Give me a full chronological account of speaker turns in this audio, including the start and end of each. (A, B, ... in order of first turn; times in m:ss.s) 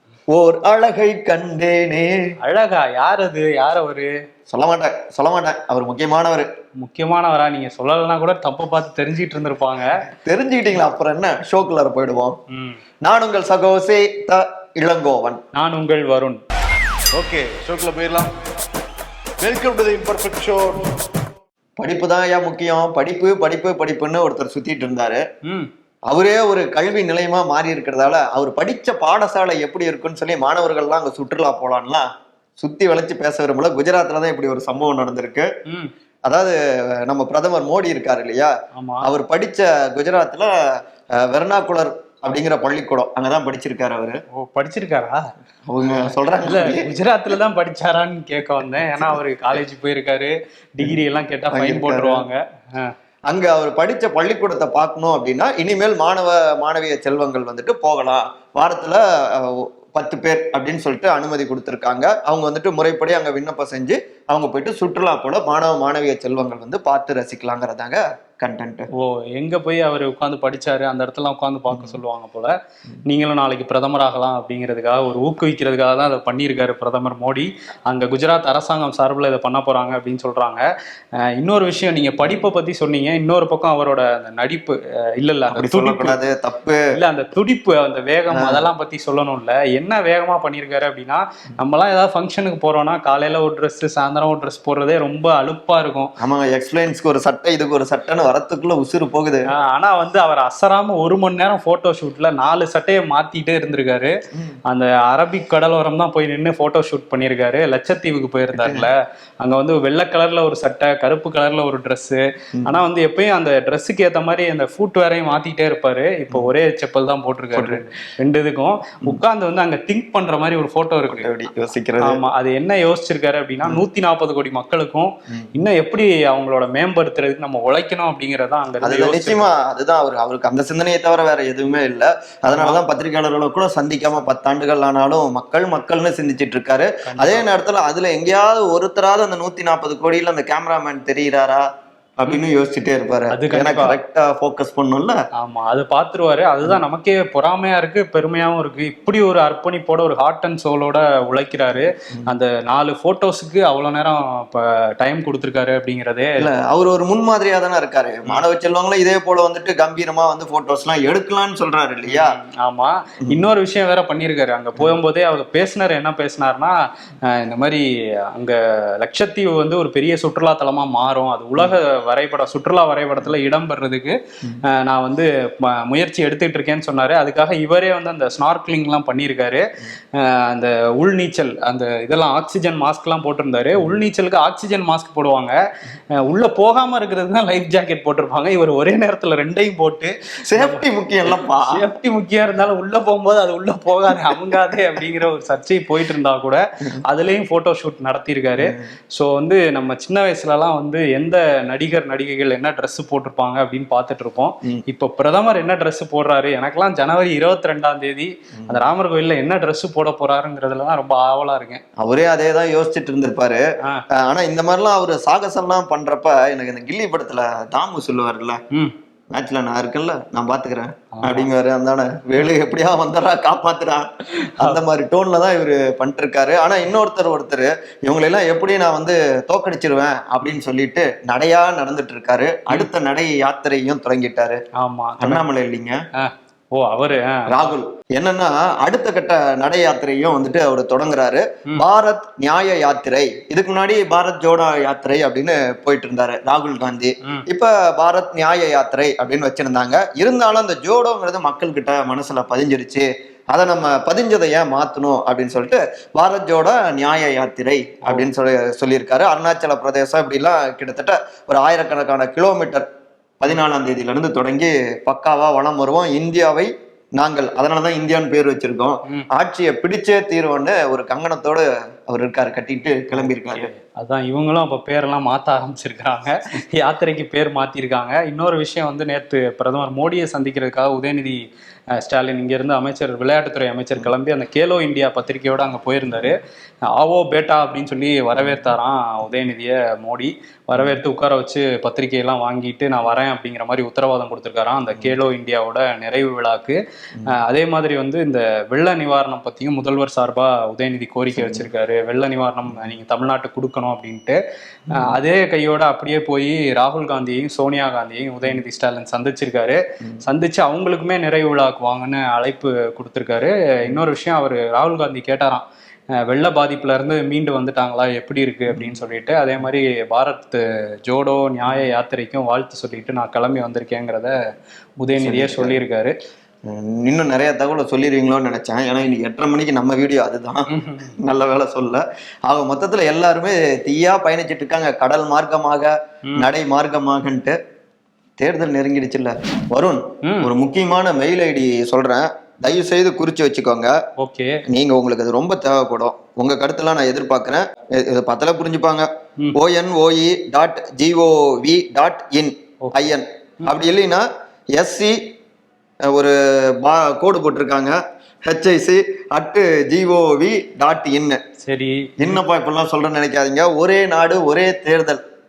0:00.3-0:02.1 A
0:02.4-0:04.1 B
0:04.5-0:06.5 A
0:06.8-0:09.9 B
0:10.3-0:12.4 A
0:12.5-0:12.8 B
0:13.0-0:15.4 A
0:15.6-0:16.4 B
0:17.1-0:18.3 C
0:19.4-0:20.9 C
0:21.8-0:25.2 A
0:26.1-0:32.1 A
0:32.6-0:35.5 A
0:36.3-0:36.6 A
0:37.1-0:38.5 A
0:38.8-0:39.1 B
0:39.0-0:40.5 A
0:41.2-0:44.2 A
0:44.4-0:45.3 B
0:45.7-0:46.9 A
0:46.0-0:52.9 B
0:51.5-0:52.3 A
0:53.3-1:08.9 A
1:09.0-1:12.5 B
1:11.7-1:12.0 A
1:13.1-1:20.6 B
1:21.4-1:26.2 B
1:25.5-1:26.8 A
1:27.0-1:36.1 B
1:28.3-1:28.7 A
1:36.2-1:39.5 A
1:39.6-1:44.1 B
1:44.7-2:01.3 B
1:48.5-1:48.9 A
1:57.5-1:57.8 A
2:01.1-2:02.2 A
2:02.0-2:09.5 B
2:08.8-2:21.6 A
2:12.5-2:12.8 B
2:17.1-2:17.4 B
2:22.2-2:25.2 A
2:23.3-2:24.0 B
2:25.4-2:36.3 B
2:36.4-2:42.4 A
2:42.1-2:46.7 B
2:47.3-2:47.8 B
2:48.4-2:59.6 B
3:00.2-3:05.5 B
3:06.2-3:31.8 B
3:10.5-3:11.8 A
3:18.6-3:18.9 A
3:32.0-3:33.6 A
3:34.2-3:38.6 A
3:39.3-3:44.1 A
3:41.1-3:41.5 B
3:44.4-3:44.8 B
3:44.6-3:54.6 A
3:54.8-3:55.5 B
3:55.2-3:56.0 A
3:56.2-3:57.7 B
3:57.5-4:22.9 A
4:23.4-4:33.7 A
4:33.1-4:41.4 B
4:42.0-4:46.4 B
4:46.9-5:04.4 B
4:48.4-4:48.7 A
5:01.4-5:01.7 A
5:04.9-5:05.2 A
5:04.9-5:15.6 B
5:16.2-5:24.4 B
5:18.7-5:19.0 A
5:21.7-5:21.9 A
5:25.0-5:26.1 B
5:25.2-5:25.8 A
5:26.7-5:30.7 A
5:30.7-5:31.2 B
5:31.2-5:37.6 A
5:38.4-5:43.9 A
5:40.2-5:40.5 B
5:44.2-5:44.6 B
5:44.7-5:54.2 A
5:52.8-5:53.1 B
5:54.8-5:55.2 A
5:56.1-6:01.4 A
6:01.6-6:02.4 B
6:02.2-6:05.2 A